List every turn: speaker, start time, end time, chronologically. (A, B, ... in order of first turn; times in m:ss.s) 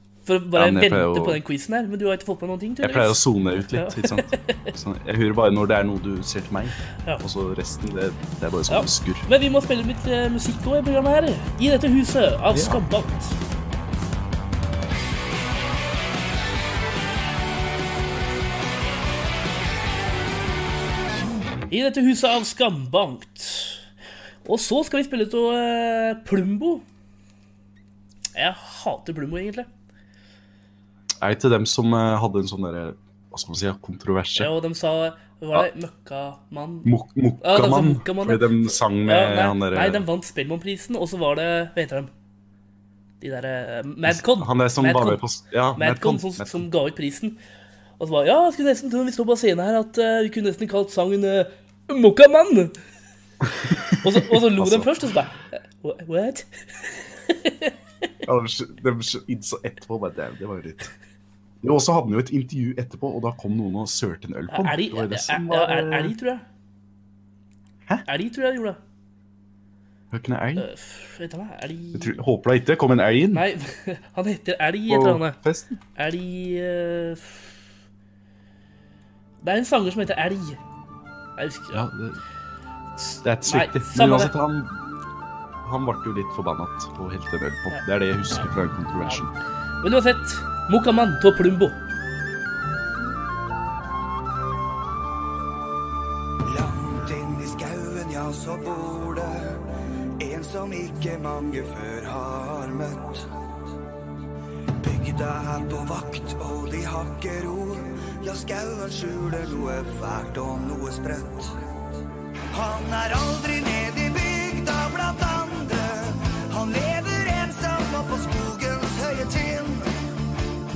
0:00.2-0:04.7 A
0:00.5-0:01.4 B
0:02.8-0:09.3 B
0:08.7-0:13.4 A
0:12.5-0:12.8 B
0:21.7-0:23.8 A
0:24.4-0:26.8 A
0:28.3-0:29.7 A
0:31.2-0:34.5 B
0:34.4-0:36.9 A
0:36.8-0:40.0 B
0:37.4-0:42.1 A
0:43.2-0:45.2 A
0:44.1-0:46.6 B
0:45.8-0:47.4 A
0:48.0-0:52.8 A
0:53.5-0:55.0 B
0:54.0-0:57.7 A
0:58.2-1:00.9 B
1:01.6-1:06.1 B
1:04.5-1:06.4 A
1:08.0-1:08.8 A
1:10.1-1:10.7 B
1:10.6-1:12.2 A
1:11.9-1:13.4 B
1:13.3-1:15.4 A
1:14.9-1:15.8 B
1:16.0-1:17.5 A
1:19.4-1:20.6 A
1:21.4-1:21.8 A
1:21.7-1:22.2 B
1:23.0-1:24.3 A
1:23.2-1:24.8 B
1:25.6-1:29.3 B
1:27.7-1:28.4 A
1:29.8-1:31.8 A
1:36.4-1:39.6 C
1:40.2-1:43.3 C
1:44.8-1:51.6 C
1:52.5-1:59.9 C